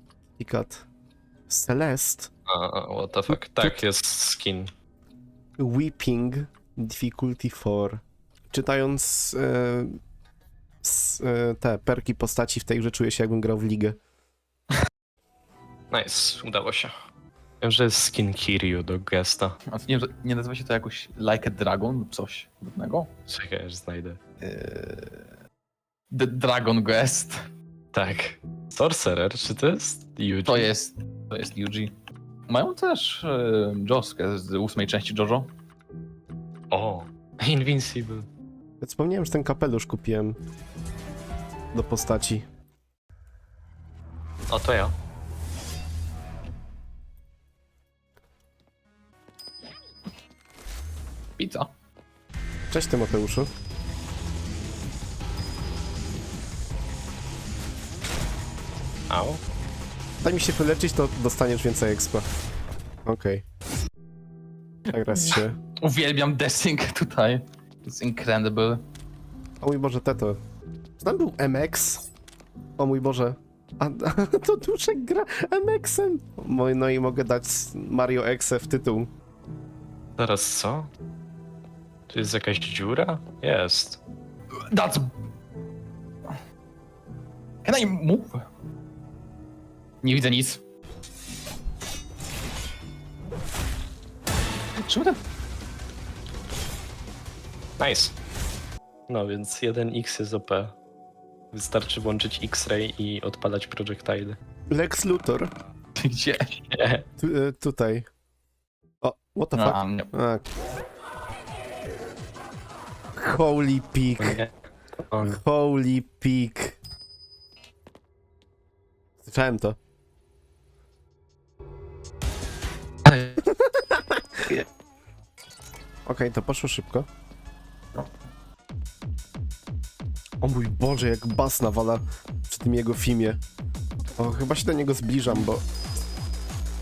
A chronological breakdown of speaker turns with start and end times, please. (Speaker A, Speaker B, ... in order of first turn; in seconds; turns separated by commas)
Speaker A: 0.4-0.8, Speaker A: 1.5-2.3, Speaker B: 2.5-4.7, Speaker A: 3.3-3.8, Speaker A: 5.6-10.0, Speaker A: 10.8-14.0, Speaker B: 15.9-16.9, Speaker B: 17.6-19.6, Speaker C: 19.7-23.1, Speaker B: 23.3-24.2, Speaker C: 24.4-25.2, Speaker C: 26.1-27.4, Speaker B: 27.9-30.7, Speaker C: 30.5-31.9, Speaker C: 32.5-35.5, Speaker B: 36.7-38.3, Speaker A: 38.8-40.4, Speaker A: 41.7-42.5, Speaker B: 44.5-45.0, Speaker C: 51.4-51.7, Speaker A: 52.7-53.5, Speaker B: 59.1-59.4, Speaker A: 60.2-62.2, Speaker A: 63.1-63.4, Speaker A: 64.9-65.6, Speaker C: 65.0-68.8, Speaker A: 69.6-70.4, Speaker A: 71.0-72.0, Speaker A: 72.8-79.1, Speaker B: 80.2-80.9, Speaker B: 82.1-84.0, Speaker C: 84.7-85.1, Speaker C: 87.7-88.4, Speaker C: 90.0-90.6, Speaker C: 94.8-95.2, Speaker B: 97.8-98.1, Speaker B: 99.1-100.8, Speaker B: 101.5-104.4, Speaker A: 104.7-105.5, Speaker C: 106.0-106.5, Speaker B: 106.7-107.0, Speaker A: 107.2-108.1, Speaker A: 109.0-110.5, Speaker C: 109.5-110.1, Speaker A: 113.2-114.4, Speaker B: 114.2-114.5, Speaker B: 115.1-115.4, Speaker A: 115.2-116.8, Speaker A: 119.2-119.8, Speaker A: 123.4-124.2, Speaker A: 126.1-127.1, Speaker A: 130.4-133.4, Speaker A: 134.2-135.6